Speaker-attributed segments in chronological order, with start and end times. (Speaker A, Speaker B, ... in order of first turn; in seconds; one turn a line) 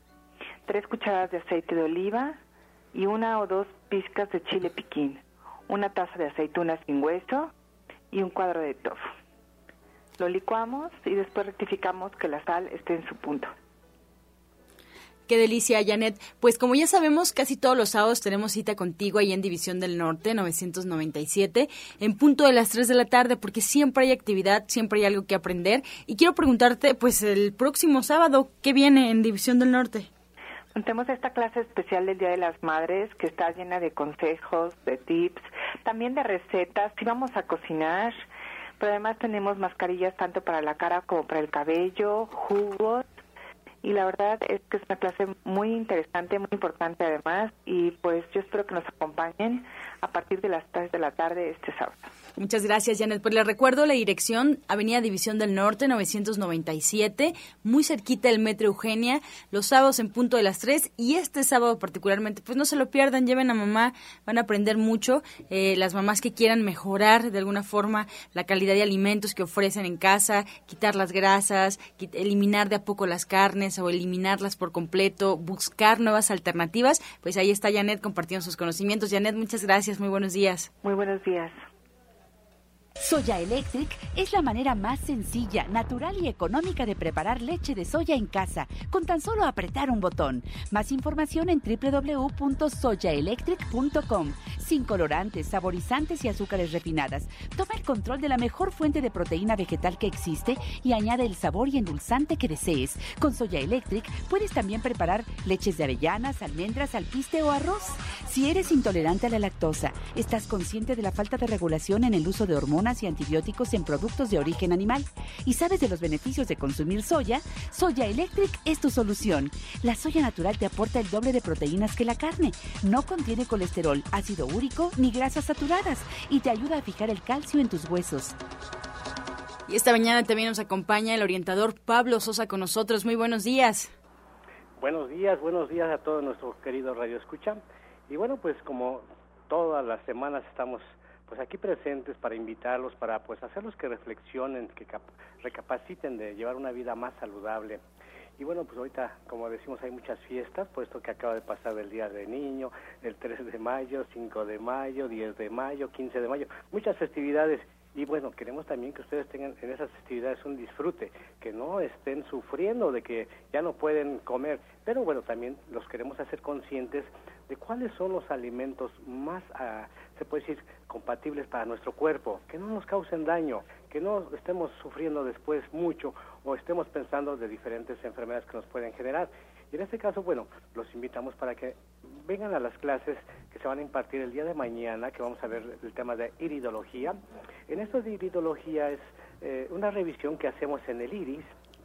Speaker A: 0.7-2.4
Speaker A: 2.9-7.5
Speaker A: 8.1-9.0
Speaker A: 10.2-13.5
Speaker B: 15.3-30.1
Speaker A: 30.7-38.2
Speaker A: 38.8-43.1
Speaker A: 43.8-52.1
Speaker B: 52.4-80.7
Speaker A: 80.8-81.6
Speaker C: 83.0-128.3
Speaker B: 129.7-133.9
Speaker D: 134.8-147.8
Speaker D: 148.4-187.2
Speaker D: 187.7-191.5